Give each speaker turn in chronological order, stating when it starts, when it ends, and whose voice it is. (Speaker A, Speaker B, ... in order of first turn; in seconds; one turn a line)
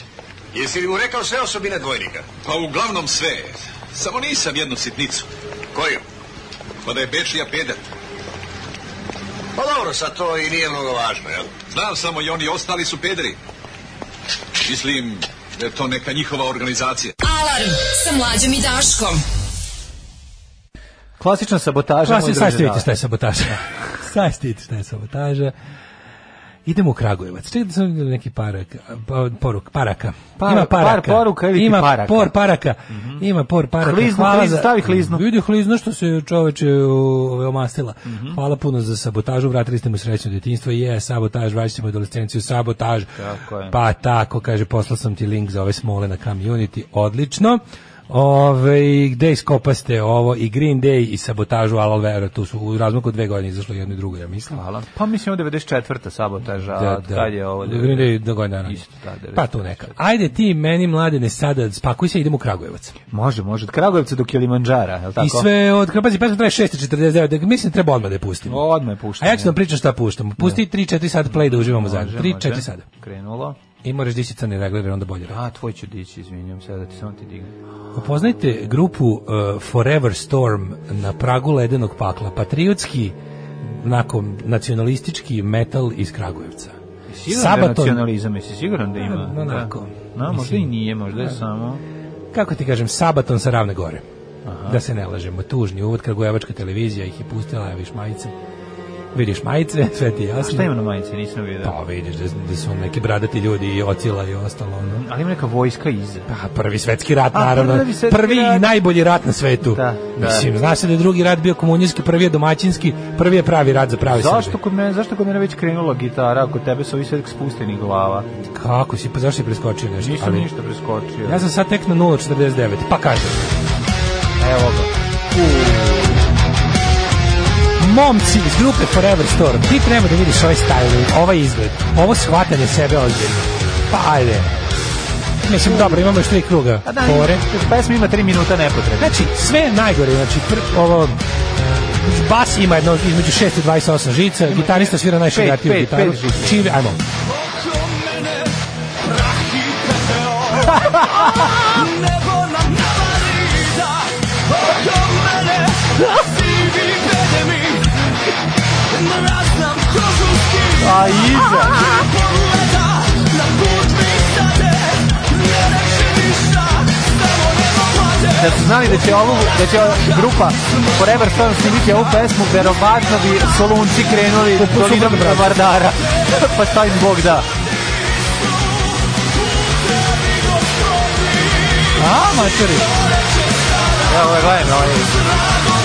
Speaker A: 0.5-2.3
Speaker B: 2.4-5.3
Speaker A: 5.7-6.0
Speaker B: 6.8-7.9
Speaker A: 9.6-11.5
Speaker B: 11.7-13.4
Speaker B: 14.6-17.1
Speaker C: 17.2-19.2
Speaker D: 21.2-22.9
Speaker E: 22.0-25.5
Speaker E: 26.6-43.1
Speaker D: 30.4-32.3
Speaker D: 32.9-33.2
Speaker D: 33.8-35.2
Speaker D: 38.0-38.4
Speaker D: 43.1-43.8
Speaker E: 43.7-54.6
Speaker D: 54.5-60.0
Speaker E: 56.7-58.8
Speaker E: 59.3-63.0
Speaker D: 63.1-65.5
Speaker E: 65.2-68.7
Speaker D: 68.5-69.5
Speaker E: 69.2-72.8
Speaker D: 71.3-73.6
Speaker E: 73.8-75.4
Speaker D: 75.3-77.5
Speaker E: 77.9-86.8
Speaker D: 87.1-91.8
Speaker E: 87.3-88.1
Speaker E: 89.0-90.7
Speaker E: 92.3-94.0
Speaker D: 94.4-94.8
Speaker E: 94.7-98.3
Speaker E: 99.1-100.7
Speaker D: 100.4-101.7
Speaker E: 101.6-105.0
Speaker D: 104.8-106.3
Speaker E: 106.3-114.5
Speaker D: 107.3-108.7
Speaker D: 109.7-110.5
Speaker D: 114.0-118.3
Speaker E: 118.5-120.5
Speaker D: 120.0-121.4
Speaker E: 121.2-123.5
Speaker D: 124.4-126.2
Speaker E: 127.8-134.5
Speaker E: 135.4-137.4
Speaker D: 136.8-139.2
Speaker E: 139.0-147.0
Speaker D: 144.5-146.7
Speaker D: 150.7-151.4
Speaker D: 160.7-162.0
Speaker D: 168.2-177.5
Speaker E: 174.5-175.6
Speaker E: 182.0-182.9
Speaker D: 184.1-185.2